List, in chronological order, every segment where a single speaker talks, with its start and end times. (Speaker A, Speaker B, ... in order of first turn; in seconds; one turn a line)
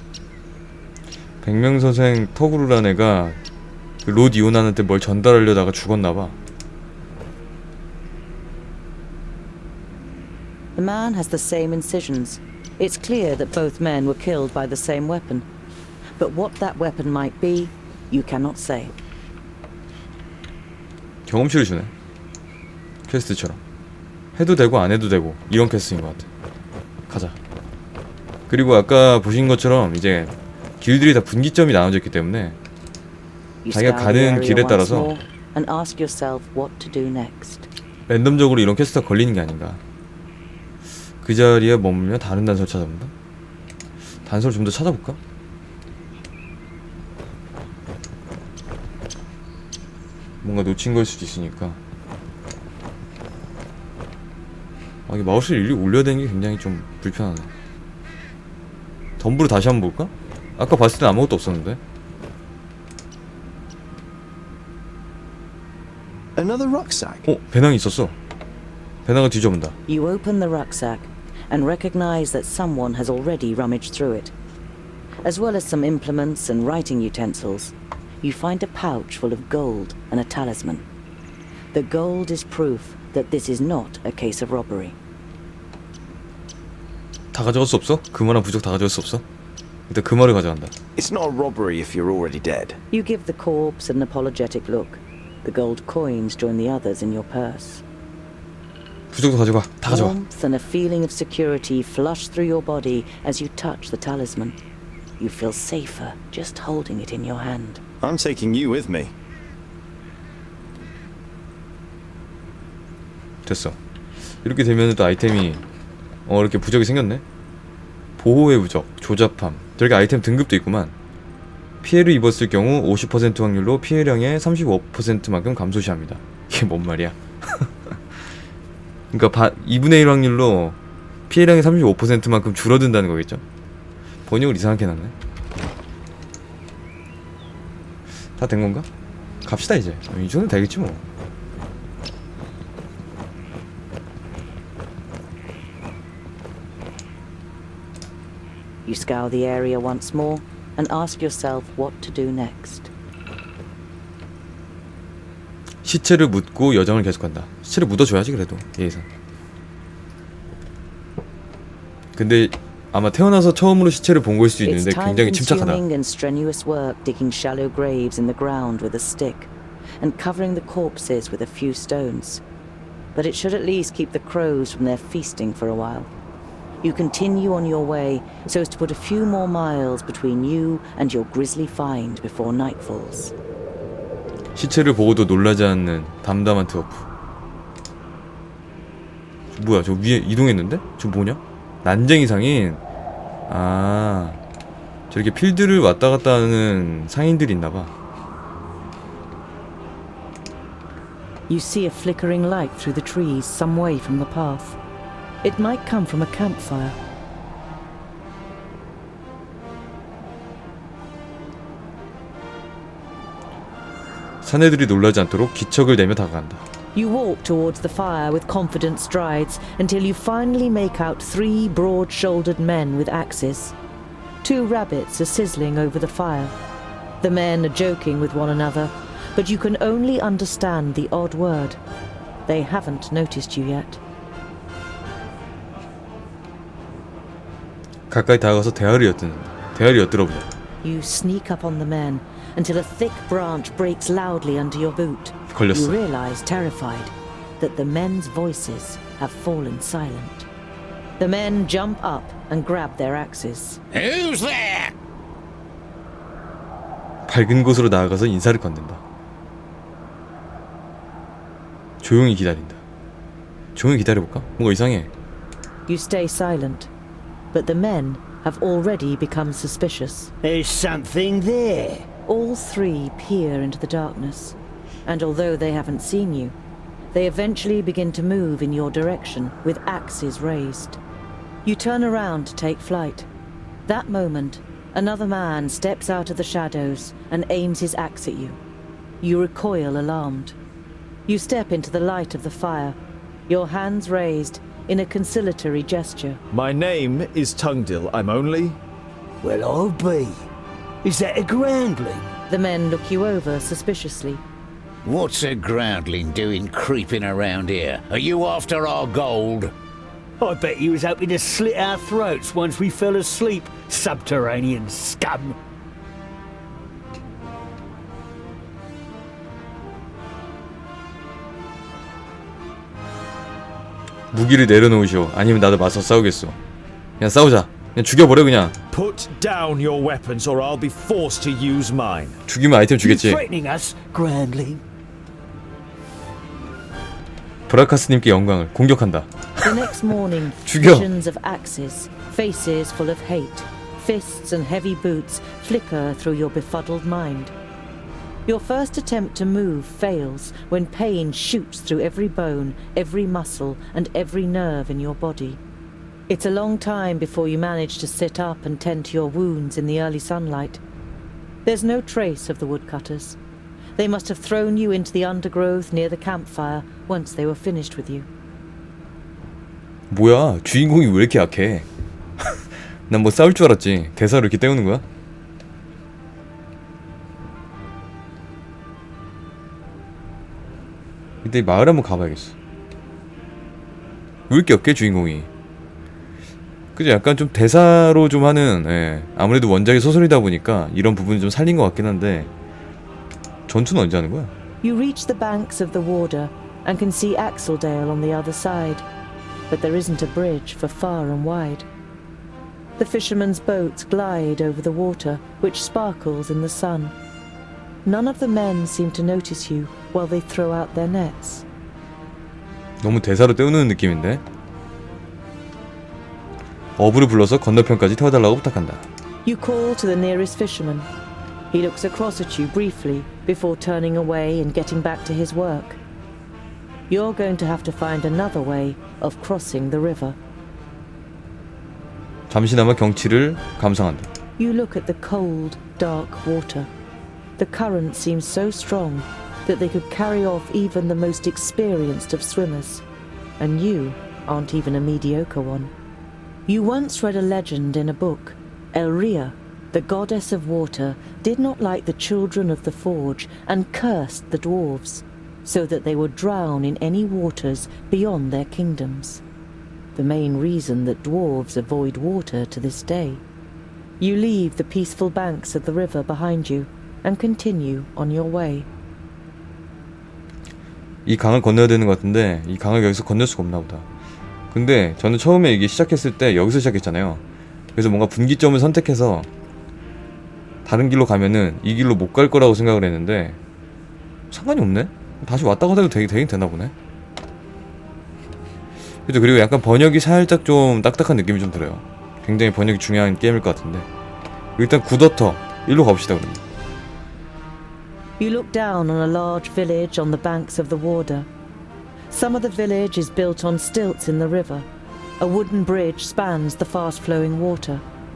Speaker A: 1.4-3.4
Speaker A: 4.0-6.4
Speaker B: 10.8-15.5
Speaker B: 16.2-18.9
Speaker A: 21.3-21.9
Speaker A: 23.1-23.6
Speaker A: 24.4-26.3
Speaker A: 27.1-27.4
Speaker A: 28.5-32.6
Speaker B: 33.6-37.7
Speaker A: 33.7-35.1
Speaker A: 38.1-39.8
Speaker A: 41.2-43.1
Speaker A: 44.3-45.2
Speaker A: 50.4-51.8
Speaker A: 55.1-57.5
Speaker A: 59.2-61.8
Speaker C: 66.4-67.3
Speaker A: 67.3-68.2
Speaker A: 69.1-69.8
Speaker B: 69.9-74.3
Speaker B: 75.2-80.8
Speaker B: 81.7-85.0
Speaker A: 87.3-89.2
Speaker A: 89.9-90.7
Speaker C: 91.0-92.8
Speaker B: 92.9-97.8
Speaker A: 99.1-100.2
Speaker B: 99.8-104.6
Speaker B: 105.2-107.8
Speaker C: 108.0-109.1
Speaker A: 113.5-113.8
Speaker A: 114.4-115.6
Speaker A: 116.3-117.2
Speaker A: 118.2-120.9
Speaker A: 121.8-127.7
Speaker A: 129.1-130.8
Speaker A: 131.3-133.4
Speaker A: 134.3-135.1
Speaker A: 138.4-138.9
Speaker A: 139.4-141.0
Speaker B: 148.8-152.9
Speaker A: 155.8-159.1
Speaker A: 162.2-165.8
Speaker B: 164.6-172.4
Speaker B: 173.1-176.1
Speaker B: 176.8-183.3
Speaker A: 184.6-187.1
Speaker A: 189.6-192.8
Speaker A: 193.5-194.4
Speaker A: 195.1-197.9
Speaker D: 201.5-204.8
Speaker D: 205.4-207.0
Speaker A: 214.4-216.6
Speaker D: 216.9-223.8
Speaker D: 224.4-226.6
Speaker D: 227.2-231.8
Speaker D: 232.5-234.0
Speaker A: 238.1-240.5
Speaker D: 240.8-250.5
Speaker A: 245.5-246.0
Speaker D: 251.2-253.8
Speaker E: 253.9-254.9
Speaker A: 257.3-259.0
Speaker A: 262.0-262.8
Speaker A: 263.8-265.1
Speaker D: 265.9-266.9
Speaker D: 267.5-270.3
Speaker F: 270.4-272.1
Speaker D: 272.3-276.6
Speaker D: 277.1-281.0
Speaker D: 281.6-283.3
Speaker D: 283.9-288.6
Speaker D: 289.2-290.6
Speaker D: 291.3-293.0
Speaker D: 293.5-296.4
Speaker G: 296.5-298.8
Speaker F: 299.4-300.5
Speaker F: 301.0-302.2
Speaker D: 302.5-304.4
Speaker E: 305.1-309.7
Speaker F: 310.4-315.6
Speaker A: 324.3-326.6
Speaker A: 327.2-328.8
Speaker G: 328.9-332.4
Speaker A: 332.5-333.4
Speaker F: 333.0-334.8
Speaker A: 337.7-339.7
Speaker D: 339.6-347.5
Speaker A: 340.6-341.1
Speaker D: 348.5-355.6
Speaker D: 356.3-360.8
Speaker D: 361.6-363.4
Speaker D: 364.0-368.3
Speaker A: 370.1-371.9
Speaker A: 373.1-375.0
Speaker A: 381.4-382.6
Speaker A: 384.5-385.5
Speaker A: 387.0-392.5
Speaker A: 393.7-394.5
Speaker D: 394.8-399.1
Speaker D: 399.7-401.9
Speaker D: 403.0-407.1
Speaker D: 408.1-411.6
Speaker A: 413.0-414.4
Speaker A: 417.0-419.1
Speaker D: 419.4-421.1
Speaker D: 421.7-426.0
Speaker D: 427.1-430.4
Speaker A: 432.5-434.3
Speaker D: 434.6-436.9
Speaker D: 437.6-443.0
Speaker D: 443.6-445.9
Speaker D: 446.7-459.4
Speaker D: 460.1-463.4
Speaker D: 464.2-468.9
Speaker A: 471.3-474.1
Speaker A: 474.7-477.4
Speaker A: 478.0-479.5
Speaker A: 480.9-483.6
Speaker A: 484.5-486.9
Speaker A: 489.3-494.1
Speaker A: 494.8-496.6
Speaker D: 498.4-501.5
Speaker D: 502.3-504.9
Speaker D: 505.4-508.0